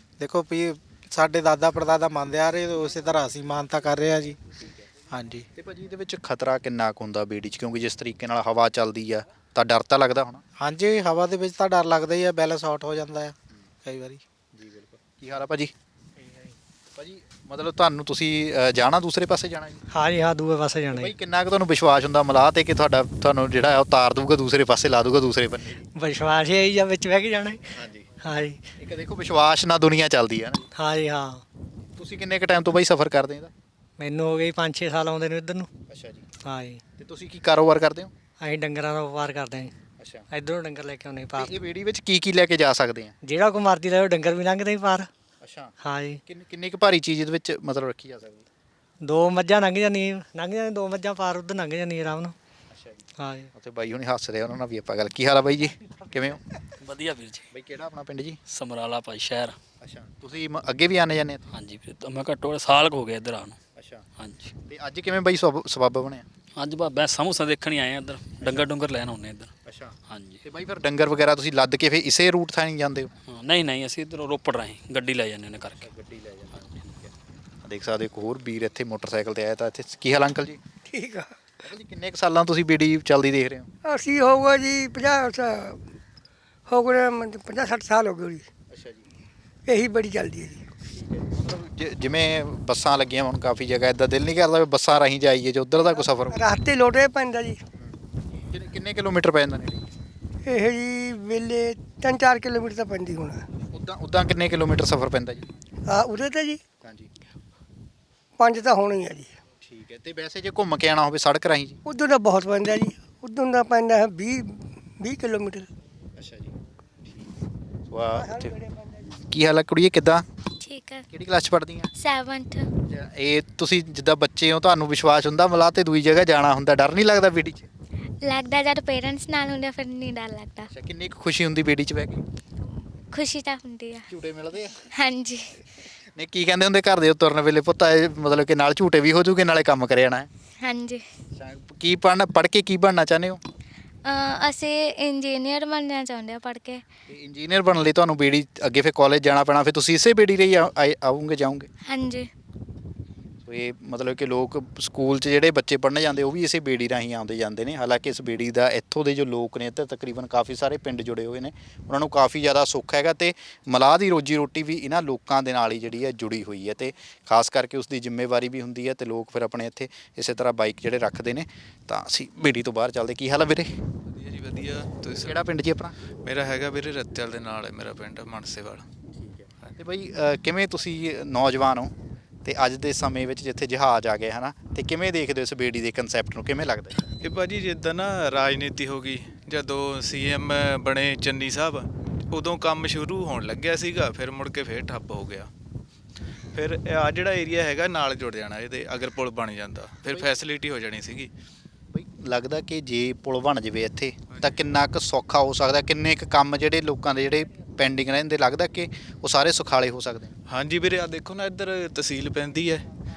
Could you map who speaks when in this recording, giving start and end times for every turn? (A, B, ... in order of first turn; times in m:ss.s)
0:00.2-0:04.4 A
0:04.6-0:04.9 B
0:05.1-0:05.5 A
0:05.6-0:10.4 B
0:10.6-0:13.3 A
0:13.8-0:14.2 A
0:14.6-0:15.7 B
0:17.0-0:19.8 B
0:19.9-0:21.1 C
0:20.9-0:25.9 B
0:25.9-0:27.6 C
0:27.8-0:28.1 B
0:28.2-0:28.6 C
0:28.8-0:30.7 B
0:30.7-0:31.4 C
0:32.0-0:33.5 B
0:34.0-0:35.7 C
0:35.9-0:36.3 B
0:36.4-0:36.8 C
0:37.0-0:38.1 B
0:38.4-0:39.7 C
0:40.0-0:40.2 B
0:40.3-0:41.6 C
0:41.4-0:43.2 B
0:43.2-0:45.1 C
0:45.4-0:45.7 B
0:45.8-0:46.2 C
0:46.3-0:48.5 B
0:49.0-0:52.4 C
0:52.7-0:56.4 B
0:53.2-0:53.5 C
0:56.8-0:57.5 D
0:57.5-0:58.4 B
0:58.5-0:59.6 D
0:59.8-1:01.4 B
1:01.5-1:03.6 D
1:03.8-1:04.1 B
1:04.2-1:04.5 D
1:04.7-1:06.3 B
1:06.5-1:09.5 D
1:09.7-1:13.1 B
1:10.1-1:10.4 D
1:13.3-1:15.9 D
1:15.7-1:17.1 B
1:17.6-1:20.6 B
1:20.9-1:21.4 E
1:21.6-1:23.7 B
1:23.8-1:25.8 E
1:26.7-1:28.5 E
1:28.7-1:29.1 B
1:29.7-1:30.7 E
1:30.9-1:36.4 B
1:36.3-1:37.6 E
1:37.8-1:39.9 B
1:40.4-1:43.4 E
1:43.7-1:45.5 B
1:45.9-1:46.6 E
1:46.8-1:47.1 B
1:48.4-1:49.4 E
1:49.6-1:51.8 B
1:51.9-1:55.7 E
1:56.2-1:56.5 B
1:57.9-1:58.6 B
1:58.2-1:59.0 E
1:59.2-2:00.2 B
2:00.6-2:01.0 F
2:01.1-2:01.9 B
2:02.0-2:02.7 F
2:02.9-2:07.7 B
2:08.2-2:10.7 F
2:10.7-2:12.2 B
2:13.1-2:14.0 F
2:14.1-2:14.8 B
2:14.9-2:15.6 F
2:16.2-2:20.3 B
2:20.6-2:21.0 F
2:21.4-2:23.4 B
2:24.0-2:26.8 F
2:27.1-2:31.7 B
2:31.8-2:32.3 F
2:33.4-2:53.8 B
2:54.1-2:55.4 G
2:55.2-2:56.0 B
2:56.2-2:58.9 G
2:59.1-3:07.0 B
3:07.2-3:15.5 G
3:16.5-3:21.3 G
3:21.9-3:30.3 B
3:30.5-3:32.9 G